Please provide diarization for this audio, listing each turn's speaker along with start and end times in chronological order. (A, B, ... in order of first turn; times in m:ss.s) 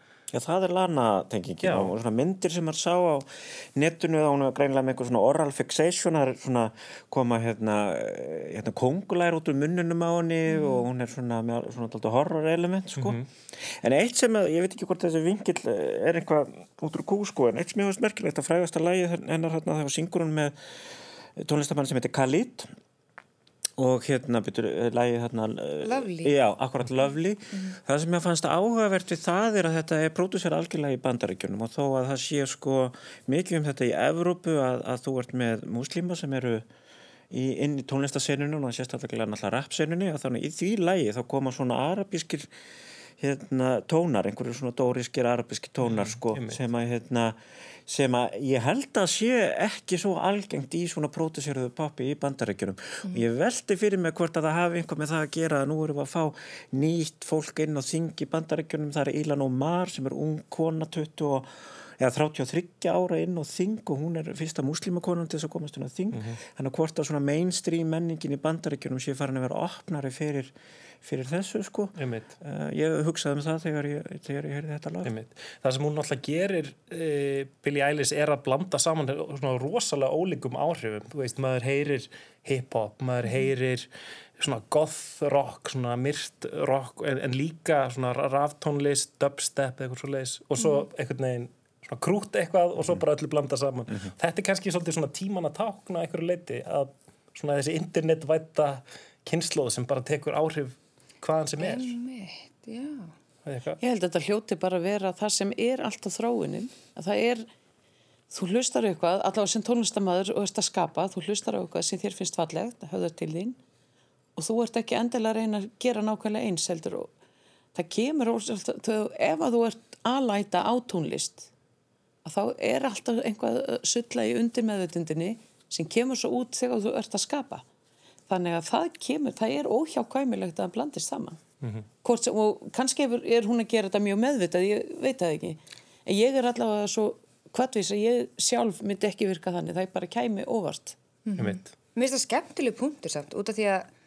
0:00.3-0:22.7 A
0:01.6-0:01.9 B
0:10.5-0:10.9 C
0:13.0-0:13.3 B
0:23.8-0:36.6 A
0:25.8-0:26.3 C
0:37.3-0:42.5 A
0:43.2-1:15.1 A
0:45.9-0:46.6 B
1:12.0-1:12.3 B
1:15.0-1:42.0 B
1:41.6-1:43.1 C
1:43.4-1:43.8 B
1:43.8-1:47.5 D
1:48.3-1:53.6 D
1:54.4-1:57.1 D
1:57.8-2:01.5 D
2:02.2-2:07.6 D
2:08.3-2:11.4 D
2:12.0-2:21.0 D
2:21.3-2:23.9 C
2:21.4-2:21.7 B